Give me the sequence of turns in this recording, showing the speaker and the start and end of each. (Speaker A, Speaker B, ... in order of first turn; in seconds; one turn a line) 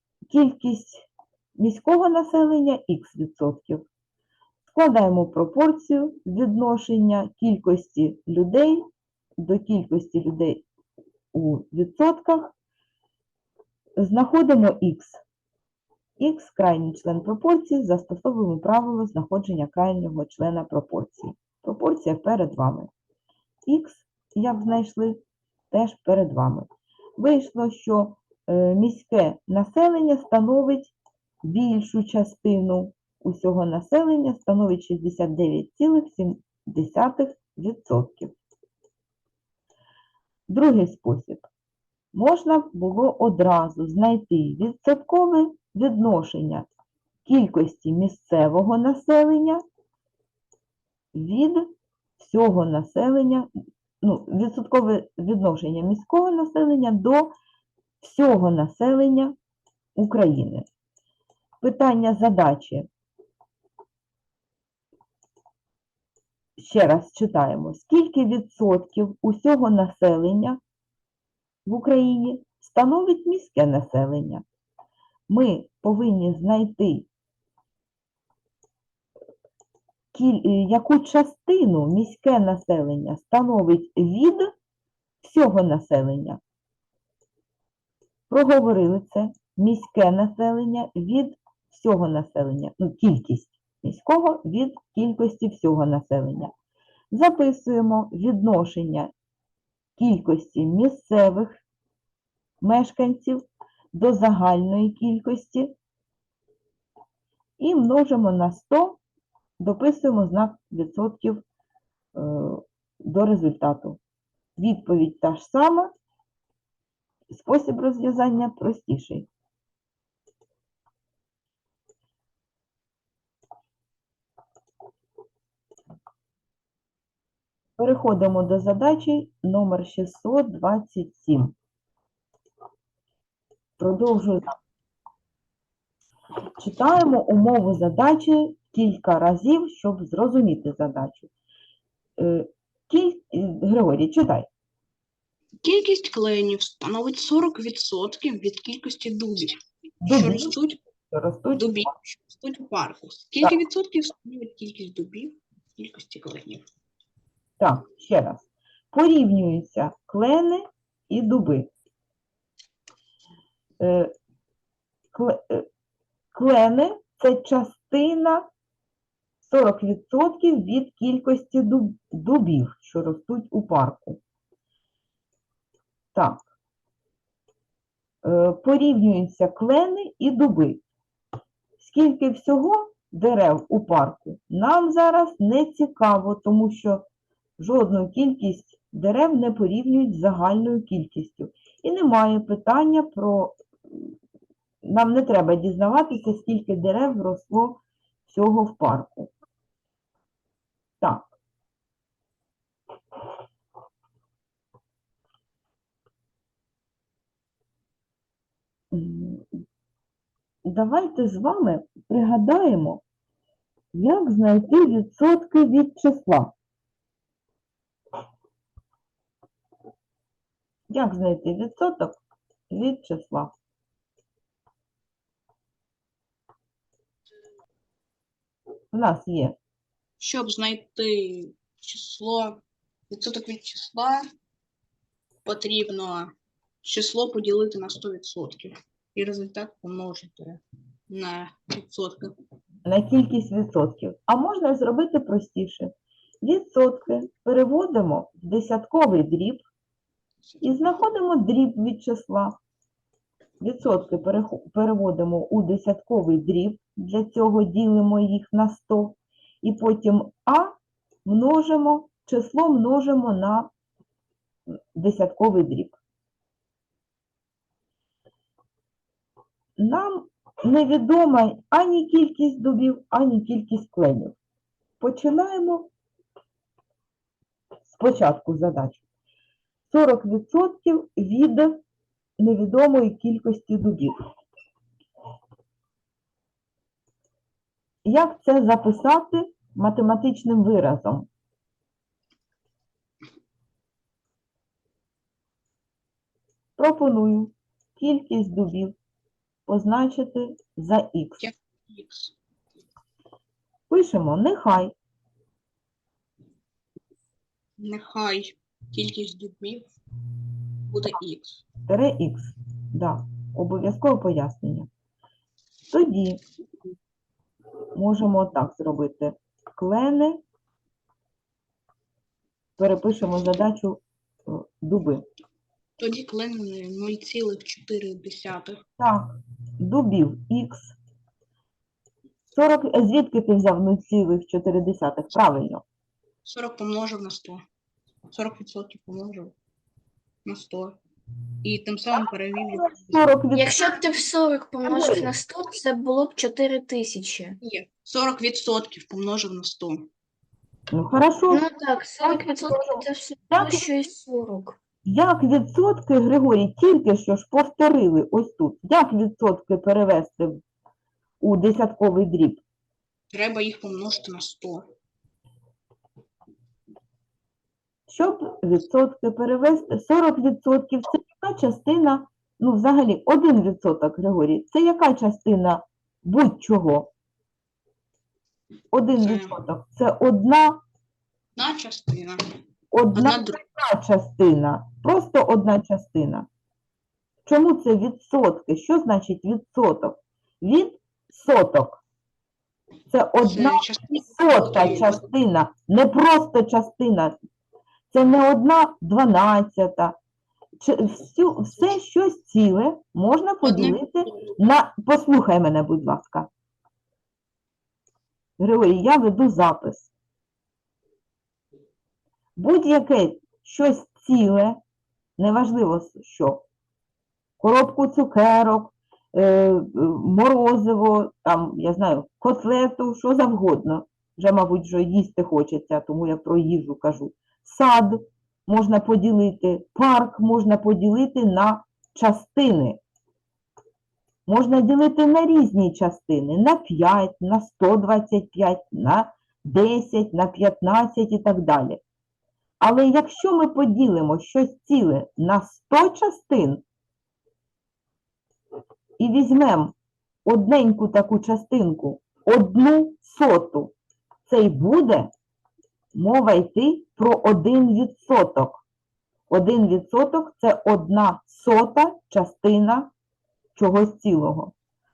Speaker A: 0.3-3.9
Speaker A: 4.7-8.8
Speaker A: 9.4-10.6
Speaker A: 11.3-12.5
Speaker A: 14.0-15.2
Speaker A: 16.2-22.9
Speaker A: 23.6-38.3
Speaker A: 40.5-41.5
Speaker A: 42.1-46.7
Speaker A: 47.2-49.6
Speaker A: 51.1-51.7
Speaker A: 52.2-53.5
Speaker A: 54.0-57.3
Speaker A: 58.0-59.3
Speaker A: 60.0-60.7
Speaker A: 61.6-62.9
Speaker A: 66.6-70.6
Speaker A: 71.6-74.4
Speaker A: 75.3-77.1
Speaker A: 80.1-84.5
Speaker A: 85.2-86.4
Speaker A: 88.3-96.5
Speaker A: 97.1-99.1
Speaker A: 100.0-101.6
Speaker A: 102.6-105.7
Speaker A: 107.6-109.0
Speaker A: 109.6-111.4
Speaker A: 112.1-114.0
Speaker A: 114.6-115.9
Speaker A: 117.3-119.3
Speaker A: 127.8-131.5
Speaker A: 133.8-134.6
Speaker A: 136.6-141.3
Speaker A: 142.2-144.5
Speaker B: 145.6-150.8
Speaker A: 150.0-151.8
Speaker B: 151.5-156.6
Speaker A: 157.6-161.7
Speaker A: 163.8-164.1
Speaker A: 165.1-165.7
Speaker A: 166.3-168.5
Speaker A: 169.4-174.2
Speaker A: 176.1-176.4
Speaker A: 178.2-180.8
Speaker A: 181.8-187.1
Speaker A: 187.6-194.1
Speaker A: 194.8-199.3
Speaker A: 201.0-201.3
Speaker A: 208.9-209.5
Speaker A: 210.6-213.0
Speaker A: 213.9-216.5
Speaker A: 220.9-222.2
Speaker A: 222.7-223.5
Speaker A: 228.9-229.6
Speaker B: 230.2-234.2
Speaker B: 235.4-236.3
Speaker B: 236.8-242.3
Speaker A: 242.8-249.6
Speaker A: 250.6-252.6
Speaker A: 253.6-260.7
Speaker A: 261.2-263.7
Speaker A: 264.9-266.0
Speaker A: 269.8-274.4
Speaker A: 275.0-275.9
Speaker A: 277.8-279.0
Speaker A: 279.9-281.8
Speaker A: 282.4-284.1
Speaker A: 288.0-291.3
Speaker A: 296.8-298.9
Speaker A: 299.7-301.5
Speaker B: 301.4-302.3
Speaker A: 303.9-304.9
Speaker B: 307.8-309.9
Speaker B: 310.9-311.6
Speaker A: 311.9-314.9
Speaker A: 315.9-316.4
Speaker A: 317.9-320.4
Speaker A: 322.8-325.2
Speaker B: 326.0-328.8
Speaker A: 329.0-330.9
Speaker A: 332.5-335.8
Speaker B: 336.4-337.6
Speaker B: 338.3-339.5
Speaker B: 340.4-341.0
Speaker B: 341.6-343.2
Speaker A: 342.7-343.9
Speaker C: 343.5-347.6
Speaker A: 344.8-345.3
Speaker B: 347.6-350.1
Speaker A: 350.9-351.6
Speaker C: 351.5-354.8
Speaker A: 352.2-353.8
Speaker A: 355.0-360.6
Speaker A: 361.4-362.6
Speaker B: 363.3-364.9
Speaker A: 368.1-377.1
Speaker A: 378.9-380.8
Speaker B: 379.2-379.6
Speaker B: 381.5-382.6
Speaker A: 382.9-386.5
Speaker B: 383.1-383.6
Speaker A: 387.4-392.0
Speaker A: 393.1-397.4
Speaker B: 393.4-395.2
Speaker A: 398.1-400.2
Speaker A: 400.8-406.5
Speaker B: 403.6-404.0
Speaker A: 408.6-410.1
Speaker A: 412.6-414.8
Speaker A: 415.4-416.6
Speaker A: 417.6-433.0
Speaker A: 434.4-442.0
Speaker A: 442.8-446.8
Speaker A: 449.2-453.9
Speaker A: 454.5-455.3
Speaker A: 456.1-458.8
Speaker A: 459.5-463.1
Speaker A: 463.7-464.7